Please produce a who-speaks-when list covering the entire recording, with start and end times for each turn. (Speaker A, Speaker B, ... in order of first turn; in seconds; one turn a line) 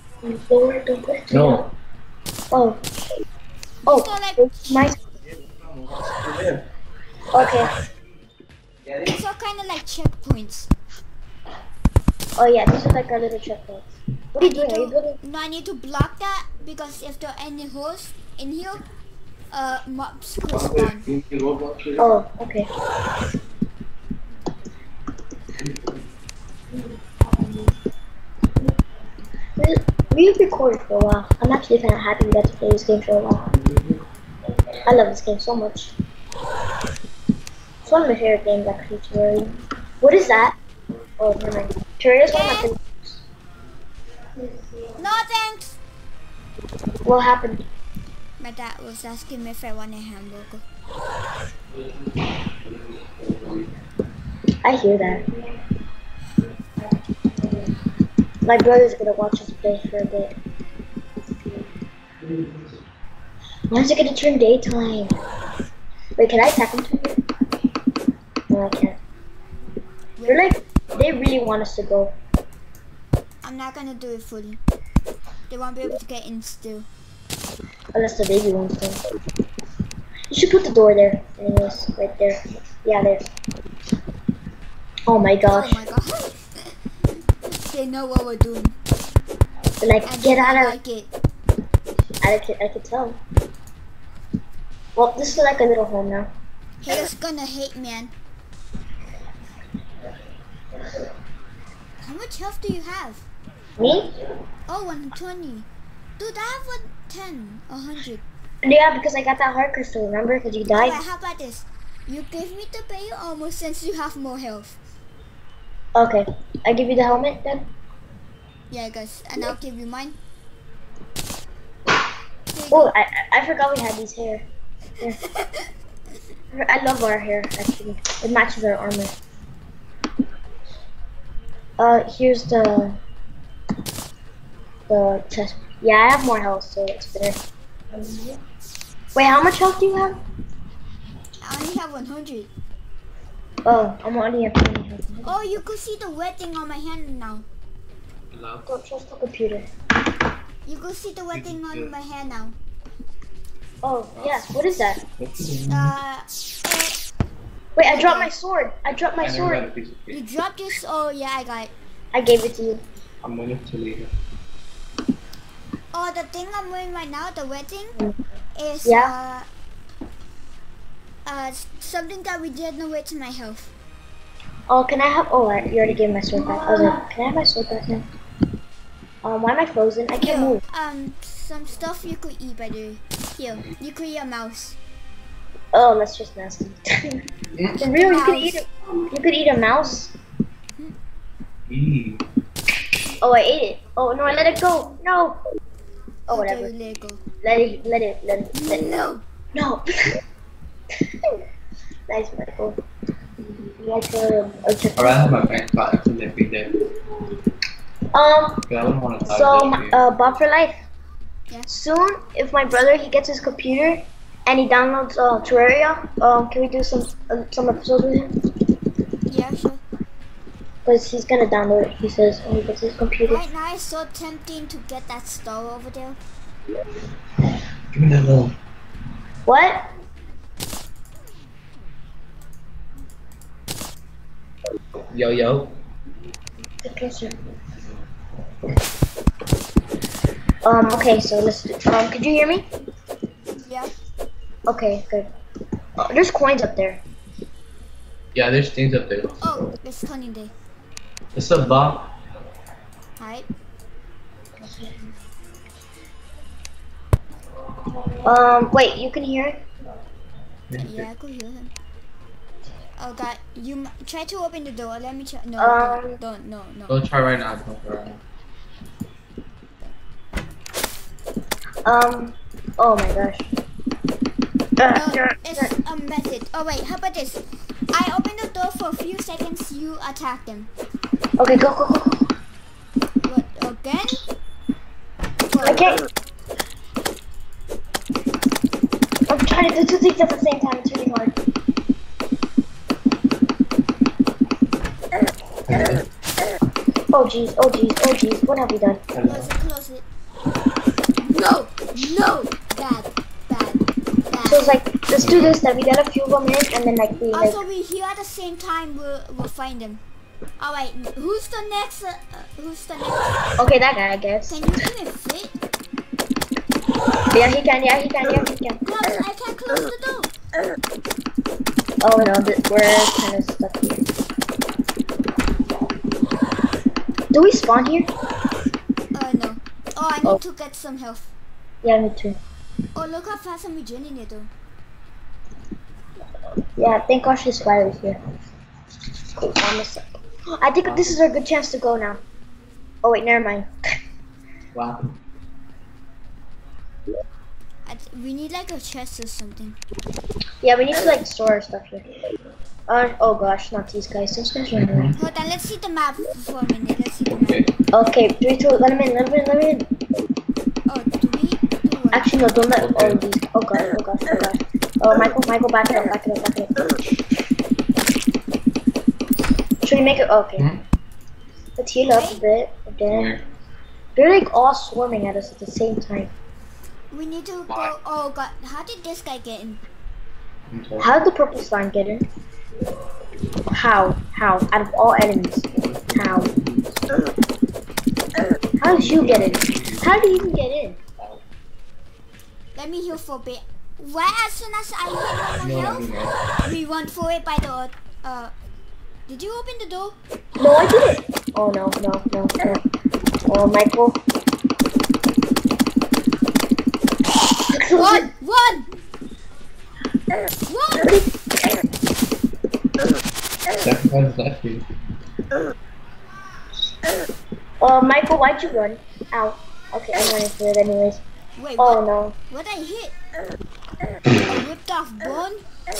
Speaker A: 0.2-1.7
Speaker B: 1.3-1.7
Speaker A: 2.5-2.8
Speaker C: 3.8-5.0
Speaker A: 3.9-5.0
Speaker B: 5.2-6.7
Speaker A: 7.3-7.7
Speaker B: 7.3-7.7
Speaker B: 8.8-9.2
Speaker C: 9.0-10.7
Speaker A: 12.3-15.2
Speaker C: 14.4-18.8
Speaker C: 19.5-21.1
Speaker B: 20.5-22.1
Speaker A: 22.0-22.7
Speaker B: 25.6-26.0
Speaker A: 29.6-33.5
Speaker B: 33.5-34.9
Speaker A: 34.8-35.9
Speaker A: 37.8-40.5
Speaker A: 41.2-43.2
Speaker C: 42.3-42.7
Speaker C: 45.0-45.8
Speaker A: 47.0-47.6
Speaker C: 48.4-50.6
Speaker B: 51.7-53.7
Speaker A: 54.6-55.2
Speaker A: 58.4-60.3
Speaker B: 62.2-62.8
Speaker A: 63.7-65.1
Speaker A: 66.2-67.2
Speaker A: 68.5-69.0
Speaker C: 70.2-70.5
Speaker A: 70.2-72.2
Speaker C: 73.4-74.6
Speaker C: 75.5-76.9
Speaker A: 77.9-79.0
Speaker A: 80.3-83.3
Speaker A: 85.1-85.8
Speaker C: 85.5-86.7
Speaker C: 87.5-88.8
Speaker A: 89.8-90.8
Speaker C: 90.0-91.1
Speaker A: 92.2-93.2
Speaker A: 95.0-96.3
Speaker C: 96.8-98.1
Speaker C: 102.0-103.2
Speaker A: 103.8-104.1
Speaker C: 104.7-105.7
Speaker C: 106.2-108.2
Speaker A: 108.6-111.0
Speaker C: 110.7-114.8
Speaker A: 115.9-117.7
Speaker C: 118.7-120.2
Speaker C: 122.5-122.9
Speaker A: 122.7-124.5
Speaker C: 125.2-125.7
Speaker A: 126.5-129.1
Speaker A: 131.8-133.0
Speaker A: 134.9-137.4
Speaker A: 139.1-140.2
Speaker C: 141.4-142.5
Speaker A: 143.6-145.3
Speaker C: 145.2-147.4
Speaker B: 148.3-148.7
Speaker A: 148.7-149.7
Speaker C: 150.7-152.6
Speaker B: 151.3-151.9
Speaker A: 153.8-155.0
Speaker B: 154.2-154.5
Speaker B: 155.2-155.9
Speaker C: 155.7-157.0
Speaker A: 157.8-159.7
Speaker C: 157.8-158.3
Speaker B: 159.2-160.2
Speaker C: 160.1-161.7
Speaker A: 162.1-162.8
Speaker B: 163.2-164.1
Speaker C: 165.9-168.0
Speaker C: 168.6-169.5
Speaker A: 168.8-169.1
Speaker C: 171.2-173.7
Speaker A: 174.7-178.1
Speaker A: 179.2-180.6
Speaker C: 180.2-184.8
Speaker A: 185.7-187.2
Speaker B: 187.5-187.8
Speaker A: 187.8-190.1
Speaker C: 187.8-188.7
Speaker B: 191.7-192.2
Speaker A: 193.2-195.4
Speaker C: 196.3-197.2
Speaker A: 196.3-196.7
Speaker A: 197.4-198.8
Speaker C: 198.5-199.2
Speaker A: 199.5-200.2
Speaker A: 202.1-202.8
Speaker A: 203.8-205.3
Speaker B: 204.9-206.8
Speaker A: 208.1-208.7
Speaker B: 208.7-210.0
Speaker A: 209.2-210.8
Speaker A: 211.7-218.3
Speaker C: 219.3-219.8
Speaker A: 220.8-223.4
Speaker C: 223.3-226.2
Speaker B: 227.9-228.5
Speaker A: 229.4-229.9
Speaker B: 235.1-235.7
Speaker A: 236.8-237.3
Speaker A: 240.6-242.7
Speaker C: 243.6-243.9
Speaker A: 244.7-245.3
Speaker A: 246.0-247.0
Speaker B: 248.3-249.7
Speaker C: 249.4-250.5
Speaker B: 251.3-252.1
Speaker C: 253.2-253.5
Speaker A: 254.6-254.9
Speaker A: 258.2-259.6
Speaker B: 260.7-261.1
Speaker C: 260.8-261.7
Speaker C: 263.0-266.9
Speaker A: 265.6-266.2
Speaker B: 266.9-268.2
Speaker A: 271.8-273.5
Speaker A: 274.8-275.7
Speaker C: 274.9-280.7
Speaker A: 281.4-282.3
Speaker C: 283.2-284.2
Speaker C: 285.5-285.8
Speaker A: 285.6-286.0
Speaker A: 289.3-291.3
Speaker B: 295.7-296.0
Speaker A: 297.1-299.0
Speaker B: 299.1-299.5
Speaker C: 299.2-300.0
Speaker C: 301.2-304.7
Speaker A: 304.4-307.6
Speaker B: 305.2-305.6
Speaker C: 307.3-310.0
Speaker C: 310.6-313.4
Speaker A: 313.6-314.7
Speaker C: 314.5-315.5
Speaker A: 317.3-318.8
Speaker C: 318.8-320.3
Speaker A: 322.0-324.0
Speaker A: 327.3-328.1
Speaker C: 329.1-331.3
Speaker A: 331.8-332.4
Speaker C: 332.9-334.5
Speaker A: 336.8-338.2
Speaker A: 339.3-342.2
Speaker B: 340.9-341.2
Speaker A: 343.0-343.7
Speaker B: 344.7-345.2
Speaker C: 347.9-349.8
Speaker A: 350.6-352.0
Speaker A: 352.9-355.1
Speaker B: 354.7-355.2
Speaker C: 355.1-357.7
Speaker B: 357.3-357.7
Speaker A: 357.9-359.9
Speaker C: 360.9-362.3
Speaker A: 362.1-366.9
Speaker B: 362.8-363.2
Speaker A: 369.8-370.7
Speaker B: 370.6-370.8
Speaker A: 371.8-373.3
Speaker C: 372.1-372.4
Speaker B: 373.1-373.4
Speaker A: 374.1-376.3
Speaker C: 377.1-379.8
Speaker B: 380.7-381.1
Speaker A: 381.0-382.3
Speaker A: 383.7-386.5
Speaker B: 385.7-387.0
Speaker A: 388.8-391.0
Speaker B: 388.8-390.1
Speaker B: 391.2-391.4
Speaker C: 392.8-396.1
Speaker B: 395.6-396.4
Speaker C: 396.6-398.5
Speaker C: 399.3-400.1
Speaker A: 400.6-402.8
Speaker A: 403.5-404.2
Speaker A: 407.7-408.3
Speaker C: 407.9-408.9
Speaker C: 410.7-411.2
Speaker B: 413.8-414.9
Speaker A: 417.8-421.2
Speaker C: 421.6-423.1
Speaker A: 421.8-422.4
Speaker C: 424.4-425.6